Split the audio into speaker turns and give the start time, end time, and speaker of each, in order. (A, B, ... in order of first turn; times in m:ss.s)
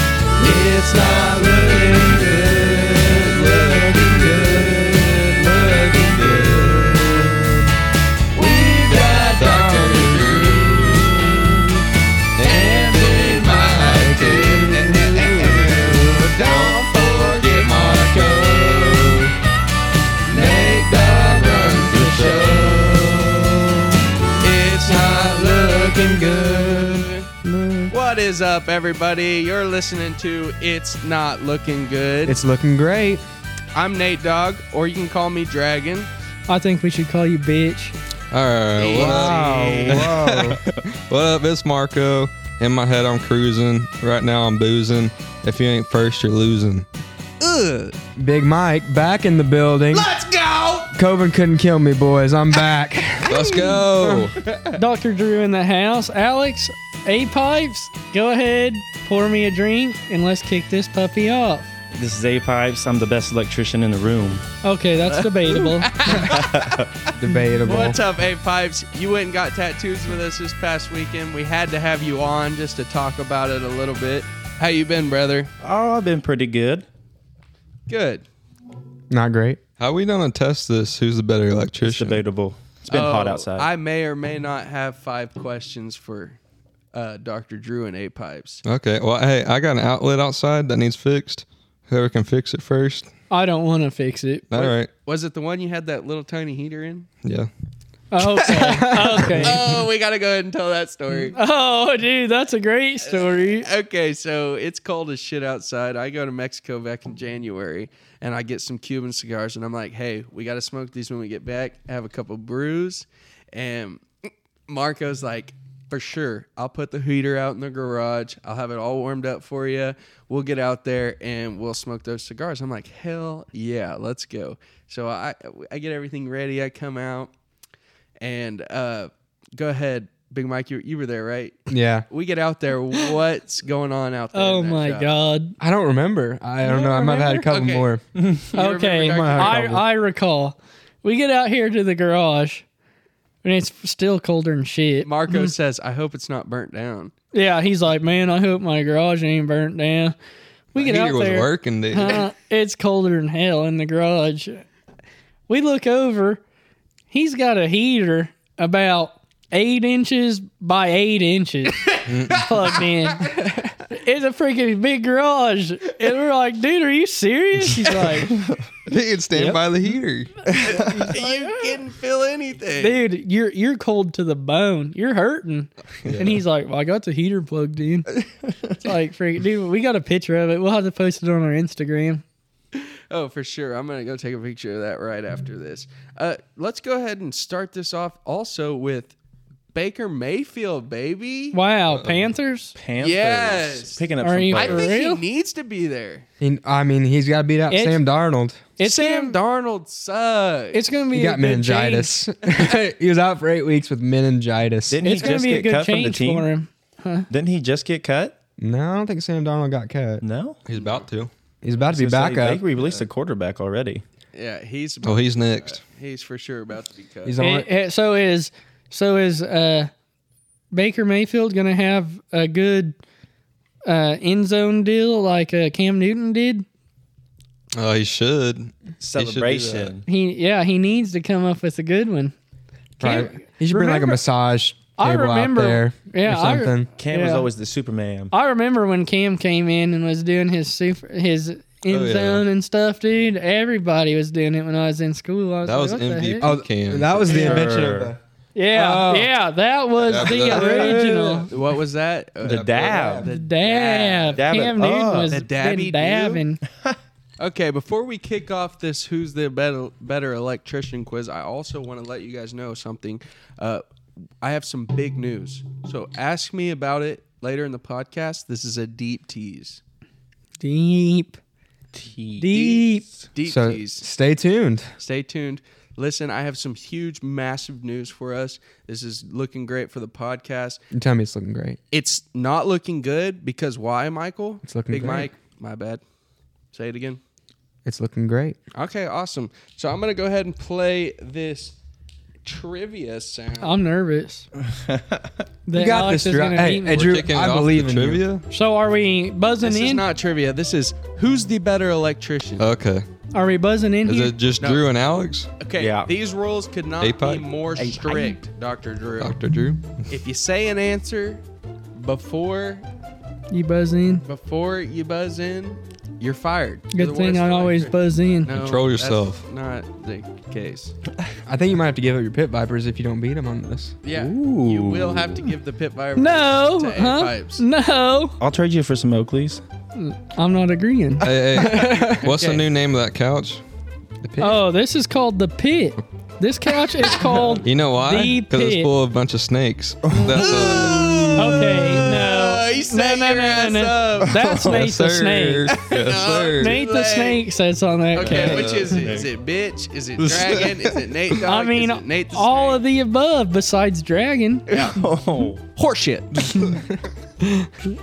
0:00.4-0:07.6 A
0:08.3-0:11.8 A
0:09.4-0:10.6 B
0:12.4-0:16.0 B
0:12.4-0:19.3 A
0:17.6-0:19.3 B
0:20.3-0:23.8 A
0:21.4-0:23.0 B
0:24.4-0:27.3 A
0:27.4-0:27.9 C
0:27.9-0:32.4 A
0:32.2-0:33.2 D
0:33.7-0:36.1 A
0:36.5-0:37.9 C
0:38.3-0:46.8 B
0:38.8-0:40.1 A
0:38.9-0:40.6 D
0:47.4-0:48.0 A
0:48.2-0:50.1 D
0:49.9-0:50.9 A
0:50.9-0:54.3 D
0:53.3-0:54.4 B
0:54.8-1:01.7 C
1:01.9-1:04.4 E
1:04.6-1:05.9 C
1:05.1-1:15.5 A
1:06.3-1:06.9 E
1:07.1-1:08.0 D
1:15.6-1:16.8 E
1:17.9-1:18.2 A
1:19.1-1:19.6 D
1:19.8-1:22.2 B
1:21.8-1:23.7 E
1:22.9-1:26.4 A
1:26.9-1:28.6 A
1:28.6-1:33.1 B
1:33.3-1:34.7 C
1:34.5-1:34.9 B
1:35.0-1:37.1 A
1:37.2-1:37.5 B
1:38.1-1:39.6 C
1:38.5-1:39.6 D
1:39.4-1:41.4 A
1:41.2-1:43.7 C
1:43.0-2:07.3 A
2:08.2-2:15.1 A
2:11.7-2:12.0 D
2:14.3-2:15.6 C
2:15.6-2:18.0 D
2:16.6-2:17.5 C
2:17.4-2:17.9 A
2:18.5-2:19.8 A
2:18.5-2:22.6 C
2:19.1-2:19.8 D
2:23.4-2:25.5 C
2:25.0-2:27.1 A
2:27.3-2:30.1 C
2:30.7-2:32.2 B
2:30.7-2:34.6 C
2:35.5-2:36.4 C
2:37.1-2:48.4 C
2:42.1-2:42.7 B
2:48.8-2:50.5 B
2:49.3-2:49.6 C
2:50.5-2:51.8 C
2:50.6-2:53.0 A
2:52.8-3:02.2 C
2:56.0-2:56.4 B
3:02.7-3:09.1 A
3:09.7-3:11.6 A
3:11.5-3:12.7 C
3:11.9-3:12.3 B
3:12.8-3:14.9 E
3:13.0-3:16.2 A
3:14.2-3:15.2 C
3:16.4-3:18.6 D
3:17.7-3:18.0 C
3:18.8-3:19.4 C
3:18.8-3:20.8 A
3:20.7-3:22.2 C
3:21.1-3:25.0 D
3:24.9-3:26.5 E
3:25.0-3:27.3 C
3:27.3-3:28.3 E
3:28.6-3:30.2 D
3:30.2-3:30.6 E
3:30.6-3:31.3 B
3:31.6-3:32.6 D
3:31.9-3:34.0 E
3:34.3-3:37.4 A
3:35.0-3:35.8 B
3:37.2-3:37.7 D
3:37.4-3:39.9 C
3:40.7-3:42.9 C
3:43.8-3:46.6 C
3:47.7-3:49.9 B
3:49.0-3:50.0 E
3:50.0-3:52.3 C
3:53.0-3:54.2 C
3:53.0-3:56.9 D
3:55.0-3:57.5 C
3:57.0-3:58.3 E
3:58.3-4:06.5 C
4:01.9-4:02.4 B
4:05.6-4:07.8 B
4:06.4-4:08.2 D
4:07.3-4:07.6 C
4:07.3-4:08.1 E
4:08.5-4:11.5 C
4:08.7-4:09.3 D
4:10.0-4:11.0 B
4:10.7-4:11.4 E
4:11.5-4:14.4 A
4:12.4-4:13.3 E
4:13.3-4:16.6 C
4:14.3-4:15.3 E
4:15.3-4:16.4 A
4:17.4-4:23.8 A
4:24.4-4:29.8 A
4:30.6-4:31.4 C
4:31.9-4:32.5 E
4:32.4-4:33.0 C
4:32.5-4:34.0 A
4:33.5-4:34.9 D
4:35.0-4:40.8 A
4:40.9-4:41.8 D
4:41.9-4:46.0 A
4:44.6-4:45.3 D
4:46.7-4:47.2 A
4:47.8-4:48.6 D
4:48.7-4:51.7 A
4:52.4-4:53.8 A
4:53.6-4:54.5 C
4:54.7-4:55.3 E
4:55.6-4:57.1 C
4:55.7-4:58.2 D
4:56.9-4:58.4 B
4:58.5-5:00.0 C
4:59.6-5:02.6 A
5:02.6-5:03.0 B
5:03.3-5:04.3 C
5:04.0-5:05.6 B
5:04.6-5:04.8 A
5:05.6-5:09.4 A
5:05.8-5:06.1 E
5:07.0-5:07.5 B
5:07.8-5:08.3 E
5:09.2-5:10.1 B
5:10.1-5:11.4 A
5:11.9-5:12.8 A
5:13.5-5:14.2 C
5:14.3-5:20.9 A
5:16.9-5:18.5 C
5:18.5-5:19.4 B
5:21.4-5:24.0 D
5:24.0-5:27.6 A
5:24.1-5:25.5 E
5:26.2-5:28.4 C
5:28.4-5:29.6 E
5:29.9-5:32.6 C
5:31.2-5:33.6 B
5:31.7-5:32.2 D
5:34.2-5:34.6 D
5:34.4-5:38.9 C
5:37.0-5:37.5 A
5:37.6-5:41.3 B
5:40.1-5:40.4 E
5:40.1-5:40.4 C
5:40.3-5:44.4 A
5:41.4-5:45.8 C
5:44.2-5:44.9 E
5:44.6-5:46.8 B
5:45.7-5:47.4 A
5:46.6-5:48.6 C
5:48.1-5:52.8 A
5:48.2-5:49.3 E
5:48.3-5:49.0 B
5:50.2-5:50.9 B
5:51.4-5:54.7 C
5:54.7-5:55.0 A
5:54.7-5:55.6 E
5:55.7-5:56.6 A
5:57.6-5:57.9 C